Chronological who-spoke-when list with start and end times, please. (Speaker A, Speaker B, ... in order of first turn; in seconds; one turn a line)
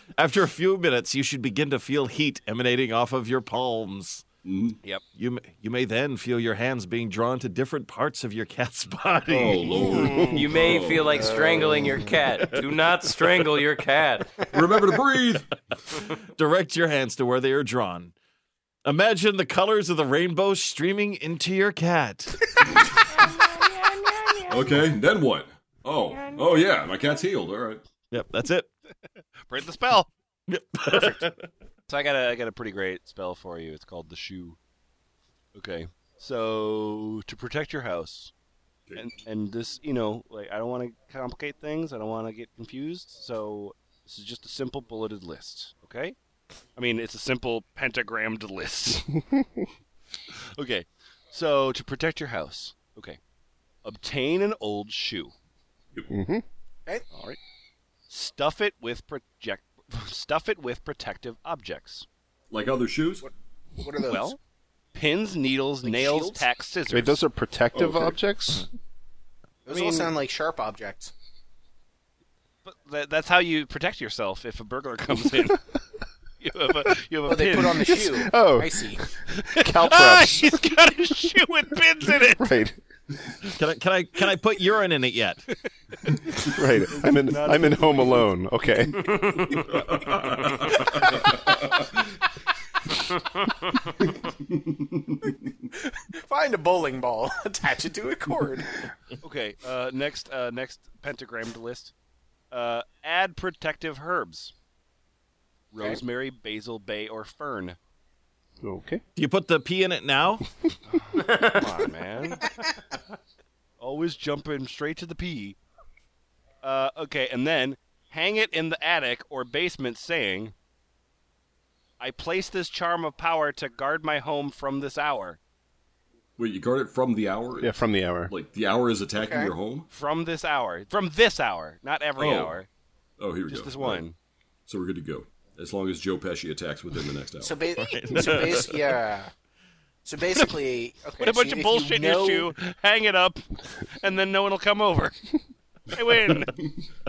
Speaker A: 0.2-4.2
Speaker B: 4.4-4.8
Speaker A: 5.1-10.0
Speaker B: 9.3-11.4
Speaker C: 9.9-10.3
Speaker D: 10.2-14.3
Speaker E: 11.3-11.7
Speaker B: 14.5-15.5
Speaker A: 16.3-18.1
Speaker A: 18.8-22.5
Speaker D: 23.1-24.7
Speaker B: 24.5-27.8
Speaker D: 26.1-26.6
Speaker A: 28.1-28.7
Speaker C: 29.5-30.1
Speaker A: 30.5-31.5
Speaker C: 30.9-31.3
Speaker C: 31.9-34.6
Speaker C: 35.5-38.3
Speaker B: 38.9-39.1
Speaker C: 39.0-46.1
Speaker C: 46.8-49.1
Speaker F: 49.3-49.6
Speaker C: 50.5-53.2
Speaker C: 53.8-55.3
Speaker F: 56.1-56.4
Speaker C: 57.1-57.4
Speaker C: 58.1-62.0
Speaker B: 62.5-63.2
Speaker E: 63.2-64.3
Speaker C: 64.0-64.4
Speaker C: 64.9-67.2
Speaker E: 65.8-66.5
Speaker F: 66.9-68.7
Speaker B: 67.7-68.2
Speaker E: 69.7-71.1
Speaker C: 69.7-70.1
Speaker C: 72.6-75.6
Speaker C: 76.4-78.0
Speaker E: 77.2-79.0
Speaker F: 77.9-80.8
Speaker C: 79.4-82.5
Speaker F: 82.2-82.8
Speaker A: 83.5-85.4
Speaker F: 86.5-89.1
Speaker C: 87.0-88.2
Speaker D: 89.0-89.6
Speaker B: 89.4-92.1
Speaker B: 94.0-95.5
Speaker E: 96.0-98.7
Speaker C: 99.2-101.9
Speaker C: 102.5-104.5
Speaker C: 105.7-107.8
Speaker F: 108.6-109.0
Speaker A: 109.2-110.4
Speaker C: 110.9-112.5
Speaker D: 111.2-111.7
Speaker C: 113.8-115.6
Speaker C: 116.6-120.5
Speaker C: 122.0-125.4
Speaker B: 126.4-129.9
Speaker F: 127.6-128.3
Speaker E: 129.2-129.5
Speaker C: 129.9-132.7
Speaker B: 132.2-132.6
Speaker B: 133.2-134.0
Speaker C: 133.5-134.2
Speaker B: 134.7-137.6
Speaker E: 137.4-139.3
Speaker A: 137.8-138.8
Speaker E: 140.0-142.5
Speaker C: 141.2-145.1
Speaker C: 145.9-146.5